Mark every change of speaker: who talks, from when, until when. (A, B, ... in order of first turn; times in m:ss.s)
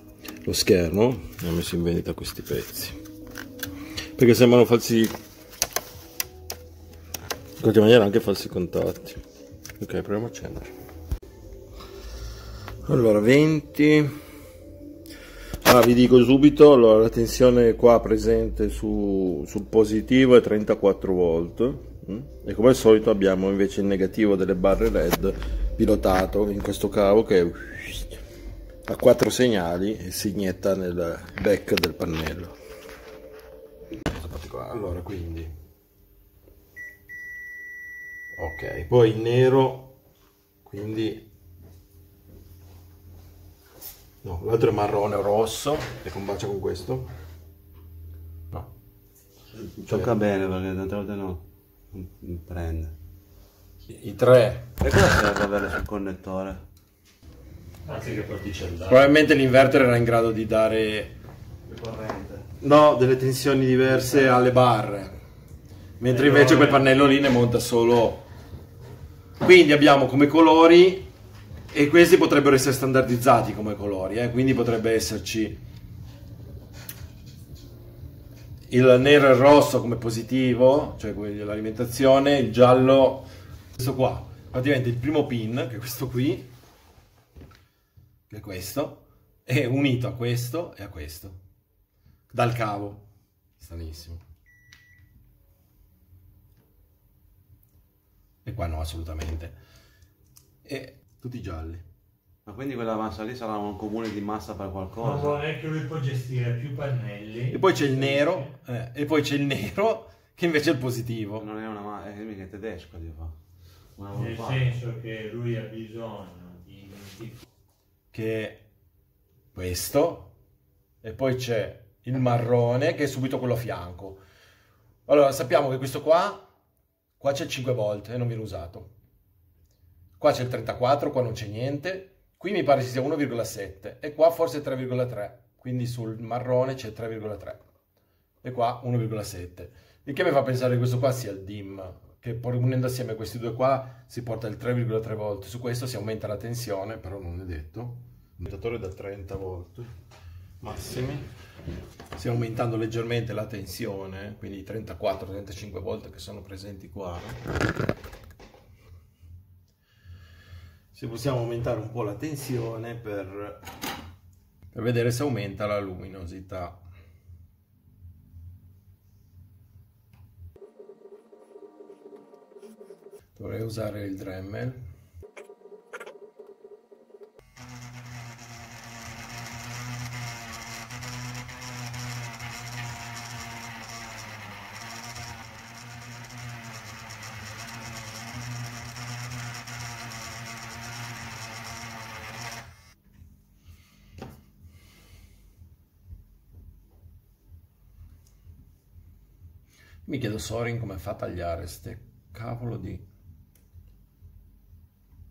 0:00.4-0:03.0 A
0:04.2-0:05.2 A
0:07.6-0:09.2 A
0:09.8-0:10.7 A
0:12.9-0:14.1 A
0:15.6-0:28.2 A
0:28.9-0:32.6 A
0:34.1-0:35.5 A
0:38.4-0:39.9 A
0:40.6-0:41.3 A
0:44.2-0:47.1 A
0:49.6-0:52.9 B
0:53.9-0:54.7 A
0:54.8-0:56.6 B
0:57.8-0:59.1 C
0:58.8-1:01.2 A
1:01.7-1:02.4 B
1:02.6-1:05.2 A
1:06.0-1:08.3 A
1:06.2-1:06.7 C
1:09.4-1:11.1 A
1:11.7-1:15.6 A
1:18.7-1:26.5 A
1:28.3-1:31.4 A
1:32.3-1:33.0 A
1:33.6-1:34.2 A
1:38.4-1:39.6 A
1:40.6-1:41.8 A
1:42.4-1:45.4 B
1:45.0-1:48.4 C
1:47.5-1:51.4 A
1:51.4-1:53.3 B
1:54.0-1:54.7 B
1:54.1-1:57.4 C
1:58.1-1:58.6 A
1:59.5-2:00.3 A
2:01.0-2:04.2 A
2:05.0-2:06.5 A
2:07.2-2:08.9 A
2:10.2-2:17.6 A
2:18.4-2:29.9 A
2:30.6-2:31.3 A
2:32.2-2:37.4 A
2:40.9-2:43.6 A
2:44.7-2:46.8 A
2:53.4-2:54.9 A
3:20.0-3:23.0 A